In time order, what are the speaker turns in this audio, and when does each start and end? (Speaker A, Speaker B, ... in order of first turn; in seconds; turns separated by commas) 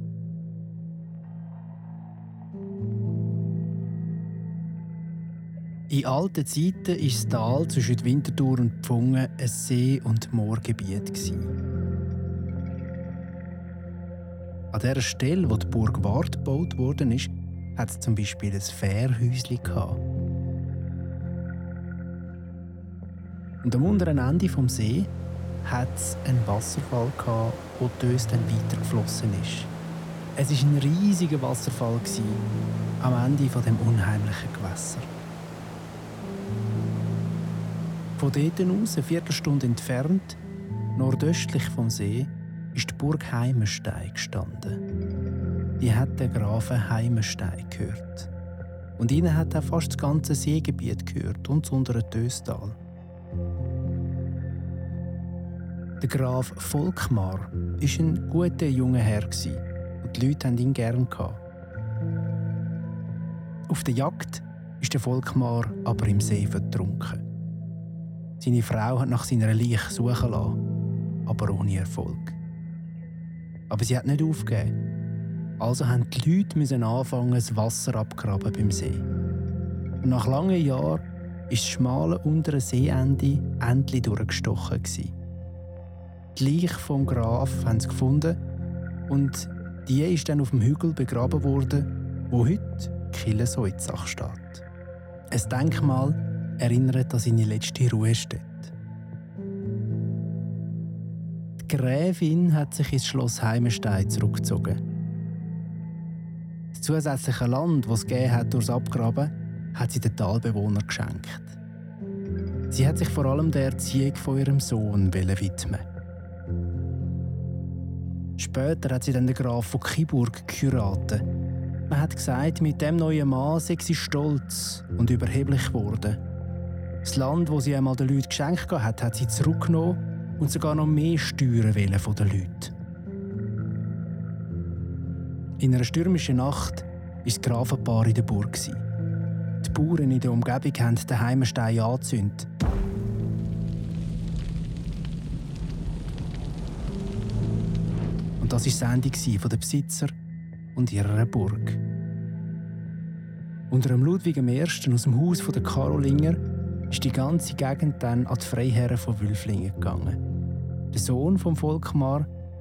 Speaker A: 5.9-11.5, Speaker A: 14.7-20.0, Speaker A: 23.6-25.1, Speaker A: 25.6-29.7, Speaker A: 30.4-32.4, Speaker A: 33.0-35.1, Speaker A: 38.2-40.4, Speaker A: 41.0-44.8, Speaker A: 45.8-48.3, Speaker A: 49.0-52.8, Speaker A: 56.0-61.4, Speaker A: 63.7-67.2, Speaker A: 68.4-70.6, Speaker A: 71.2-72.4, Speaker A: 73.7-74.8, Speaker A: 75.6-79.0, Speaker A: 80.0-85.1, Speaker A: 86.3-88.4, Speaker A: 89.1-94.6, Speaker A: 95.3-98.7, Speaker A: 101.6-104.8, Speaker A: 106.7-111.6, Speaker A: 112.7-115.8, Speaker A: 118.4-121.2, Speaker A: 121.9-126.2, Speaker A: 127.0-132.7, Speaker A: 135.6-138.8, Speaker A: 139.6-142.5, Speaker A: 148.4-150.1, Speaker A: 150.7-151.8, Speaker A: 153.7-160.2, Speaker A: 160.9-162.3